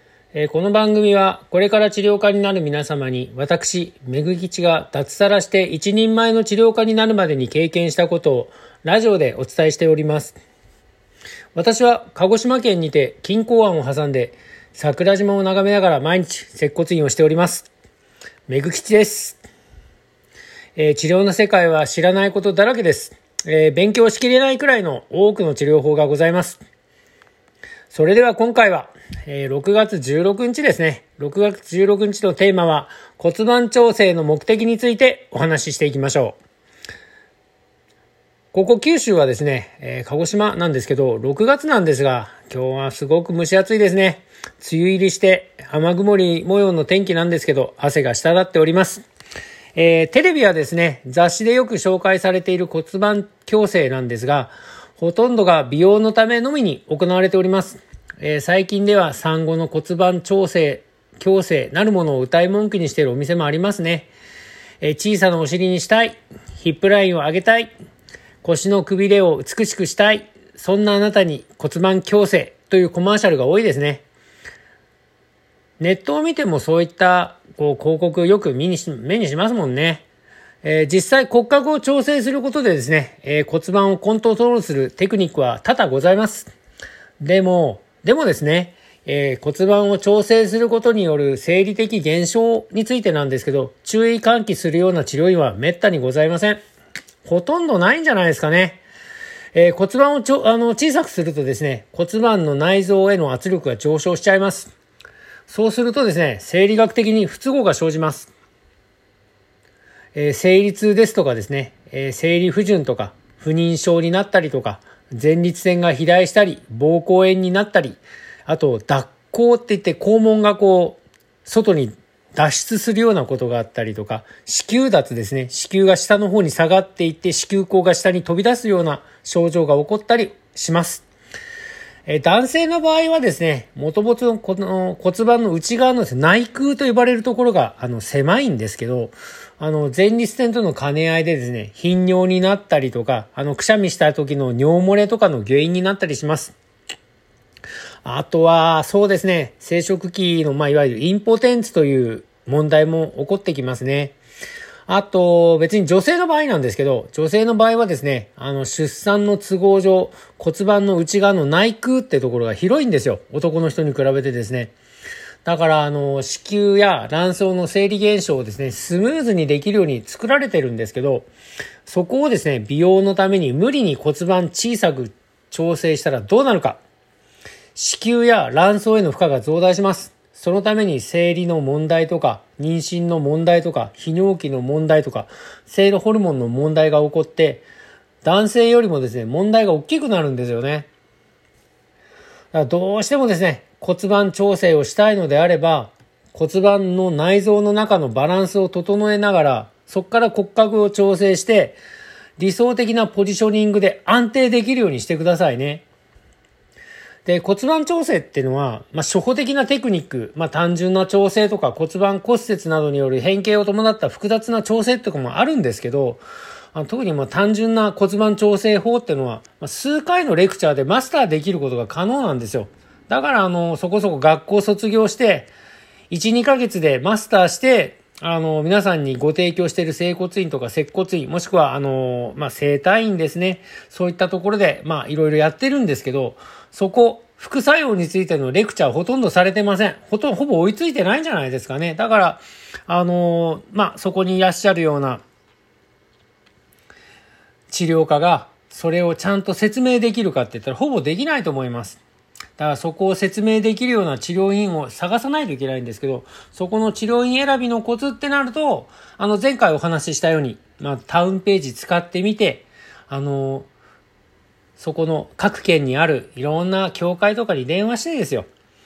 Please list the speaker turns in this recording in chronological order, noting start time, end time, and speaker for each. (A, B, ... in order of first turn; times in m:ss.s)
0:00.3-0:10.4 A
0:11.5-0:17.7 A
0:18.5-0:19.4 A
0:20.8-0:26.6 A
0:27.9-0:36.4 A
0:38.5-0:49.0 A
0:49.7-1:04.1 A
1:04.8-1:07.7 A
1:08.4-1:14.0 A
1:15.8-1:20.0 A
1:20.6-1:26.5 A
1:27.2-1:36.6 A
1:37.2-1:38.8 A
1:39.5-1:44.7 A
1:45.5-1:48.3 A
1:50.1-2:11.0 A
2:12.0-2:26.5 A
2:28.0-2:34.2 A
2:34.9-2:44.7 A
2:45.4-2:51.3 A
2:51.8-2:56.8 A
2:57.7-3:07.6 A
3:08.2-3:10.9 A
3:12.5-3:21.8 A
3:22.4-3:25.9 A
3:27.2-3:36.2 A
3:36.7-3:45.5 A
3:46.1-4:05.2 A
4:07.7-4:12.0 A
4:12.6-4:23.7 A
4:24.8-4:28.5 A